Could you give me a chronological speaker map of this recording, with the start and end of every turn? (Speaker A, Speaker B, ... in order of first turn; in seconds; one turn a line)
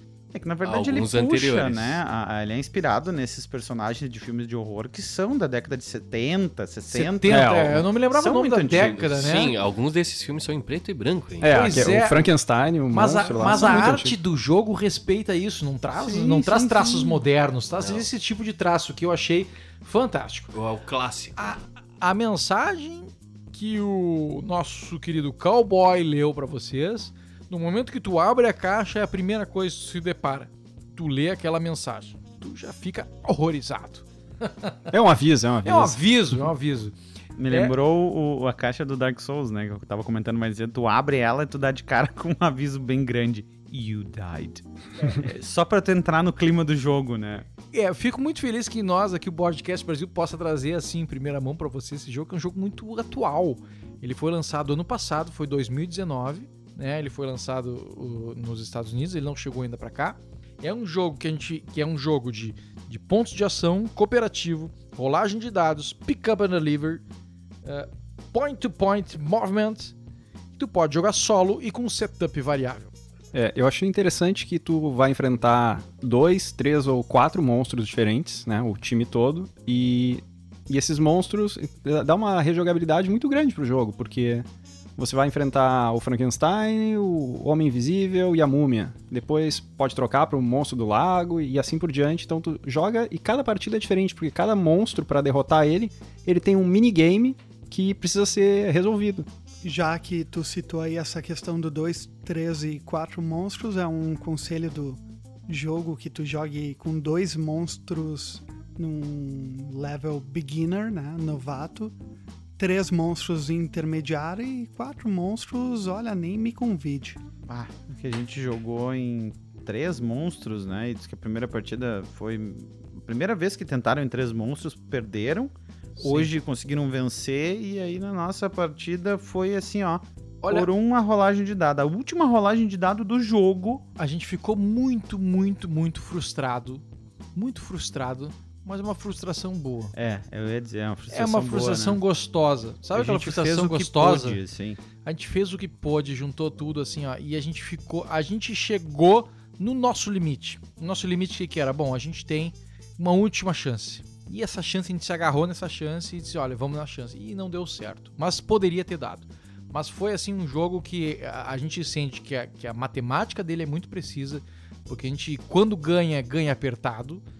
Speaker A: 0.3-9.3
Speaker B: 0.6-2.0
Speaker C: 6.9-9.5
Speaker D: 7.3-7.8
Speaker B: 8.7-11.8
Speaker D: 11.4-14.2
Speaker C: 11.5-12.3
Speaker C: 12.9-20.5
Speaker A: 16.0-17.2
Speaker B: 17.8-18.1
Speaker B: 20.5-21.6
Speaker C: 21.4-34.9
Speaker D: 34.9-36.0
Speaker C: 35.6-37.0
Speaker A: 37.4-47.5
Speaker C: 37.5-37.7
Speaker C: 47.7-67.0
Speaker C: 67.6-69.9
Speaker C: 70.5-72.9
Speaker D: 73.3-99.3
Speaker E: 99.6-111.9
Speaker E: 112.6-117.2
Speaker A: 117.5-133.8
Speaker C: 126.0-126.3
Speaker C: 130.4-130.7
Speaker C: 134.0-136.8
Speaker C: 137.3-139.9
Speaker A: 139.9-142.0
Speaker C: 141.1-144.4
Speaker A: 142.9-144.8
Speaker C: 145.0-167.2